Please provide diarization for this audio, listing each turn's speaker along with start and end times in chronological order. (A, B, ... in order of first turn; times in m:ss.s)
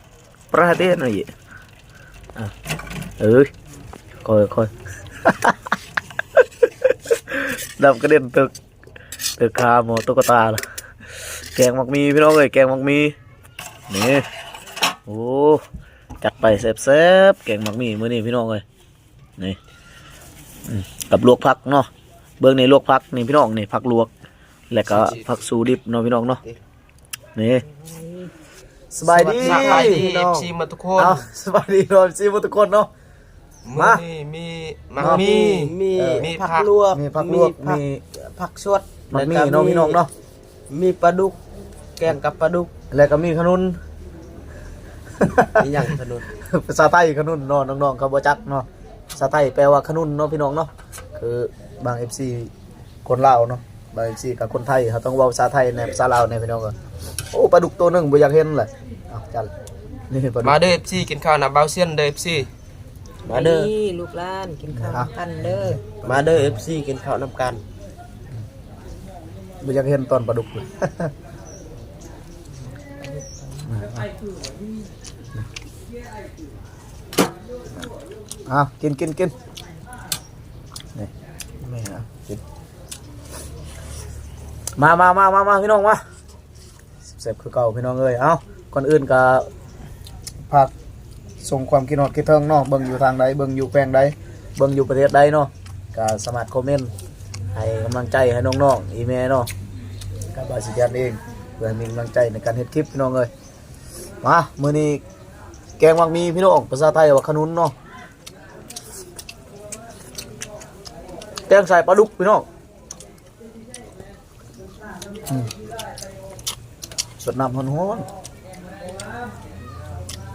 0:00.5-0:01.3 A
0:03.2-0:03.5 A
0:04.2-0:04.7 A
0:05.2-0:05.5 A
0:07.3-0:08.5 A
0:09.4-0:10.6 A
0:11.2-0:13.1 A
0:13.9-0:14.2 A
0:15.1-0:15.6 A
0:16.2-0:18.6 A
0:20.6-0:21.9 A
0:22.4-0:24.1 A
0:24.7-0:26.4 A
0:27.4-0:27.6 A
0:27.7-0:28.3 B
0:28.9-0:30.0 A
0:29.0-0:30.5 C
0:29.4-0:31.2 D
0:31.0-0:32.9 A
0:33.6-0:36.7 D
0:33.7-0:34.0 A
0:34.9-0:40.0 C
0:35.9-0:36.3 A
0:36.9-0:38.0 A
0:39.1-0:40.1 A
0:40.7-0:41.4 C
0:42.0-0:42.7 C
0:42.9-0:43.8 A
0:45.2-0:45.6 A
0:45.5-0:46.2 C
0:46.4-0:52.5 A
0:53.0-0:56.8 A
0:57.3-0:59.5 A
1:00.1-1:00.7 A
1:00.4-1:02.5 D
1:03.3-1:05.8 B
1:03.3-1:03.7 C
1:04.7-1:06.3 A
1:06.0-1:07.6 C
1:09.6-1:11.1 A
1:13.0-1:13.9 B
1:13.7-1:14.1 A
1:18.5-1:19.3 A
1:21.6-1:22.4 A
1:24.8-1:26.0 A
1:27.0-1:29.5 A
1:31.4-1:36.9 A
1:37.5-1:39.5 A
1:40.3-1:43.3 A
1:44.2-1:45.0 A
1:45.8-1:47.7 A
1:51.5-1:52.4 A
1:57.2-1:58.1 A